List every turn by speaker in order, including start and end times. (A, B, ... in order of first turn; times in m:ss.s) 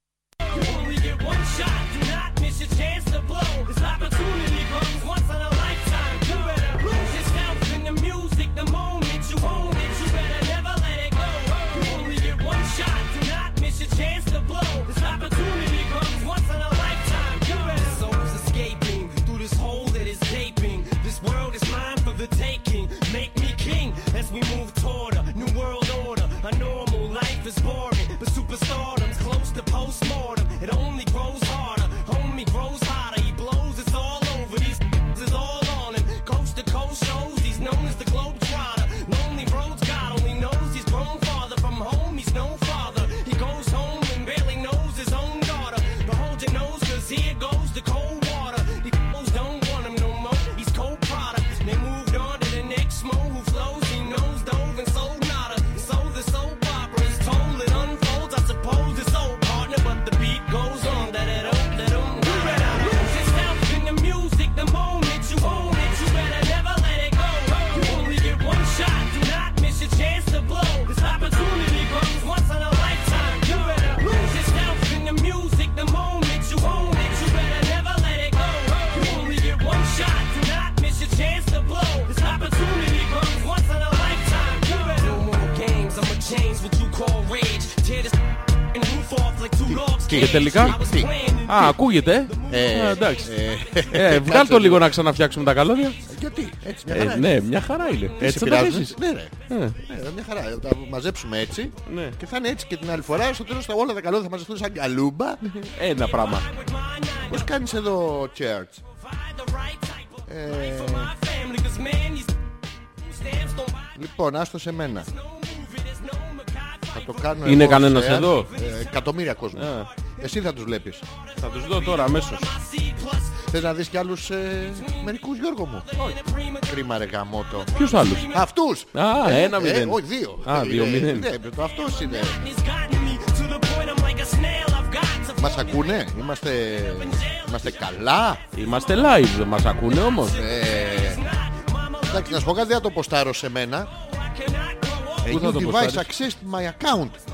0:00.4-1:32.6 A
1:29.7-1:31.1 B
1:30.2-1:30.8 C
1:31.5-1:33.3 C
1:32.5-1:34.9 B
1:33.9-1:36.0 C
1:36.1-1:37.3 B
1:36.9-1:39.0 C
1:38.2-1:45.4 B
1:39.5-1:39.8 C
1:41.9-1:42.2 C
1:45.6-1:46.5 C
1:46.3-1:47.5 A
1:47.3-1:48.8 B
1:49.0-1:52.4 A
1:50.3-1:51.1 B
1:53.0-1:54.0 A
1:54.0-1:55.1 B
1:55.1-1:57.3 A
1:56.9-2:01.0 B
1:57.4-1:58.5 C
1:58.5-1:58.8 A
1:59.6-1:59.9 C
2:01.4-2:02.5 C
2:01.4-2:03.5 A
2:03.5-2:05.9 B
2:05.9-2:06.8 A
2:06.7-2:07.7 B
2:07.7-2:08.4 A
2:07.8-2:08.3 C
2:08.3-2:12.4 B
2:08.9-2:11.3 C
2:12.0-2:15.7 A
2:15.4-2:18.4 B
2:17.0-2:17.8 A
2:18.5-2:20.4 C
2:18.6-2:19.0 A
2:19.8-2:22.4 A
2:20.3-2:21.2 B
2:22.1-2:23.9 B
2:24.0-2:25.3 A
2:25.2-2:27.2 B
2:25.3-2:26.1 C